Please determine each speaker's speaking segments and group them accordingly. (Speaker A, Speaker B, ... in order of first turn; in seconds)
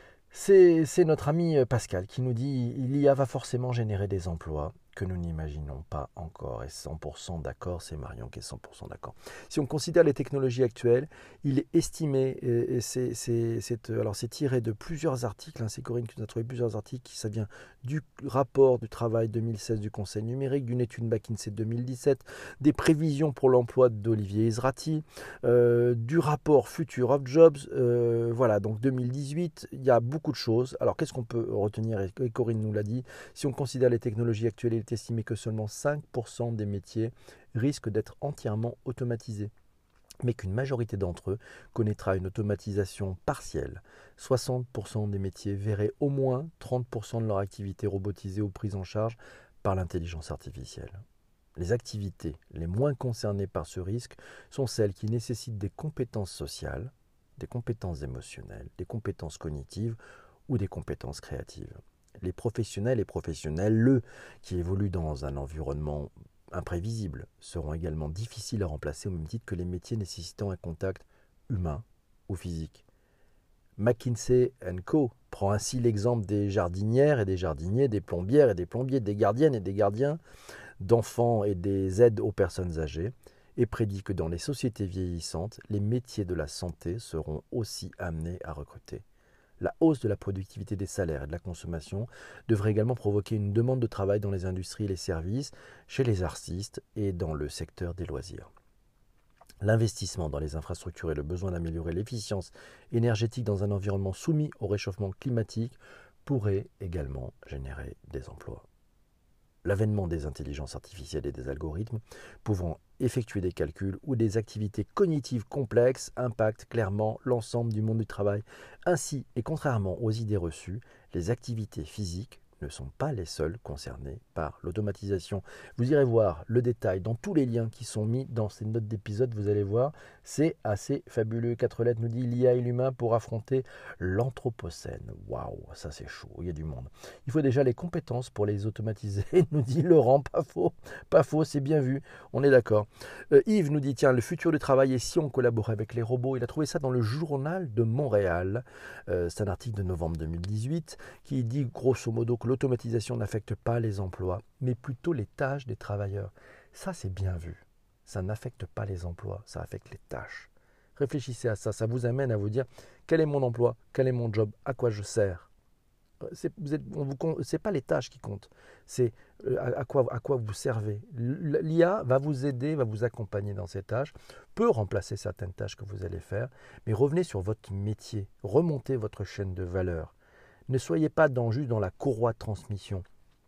Speaker A: 0.3-39.5, 40.2-51.0, 51.5-72.8, 73.8-80.2, 80.8-89.0, 89.6-98.5, 99.6-108.7, 109.6-165.5, 166.2-180.1, 180.7-183.0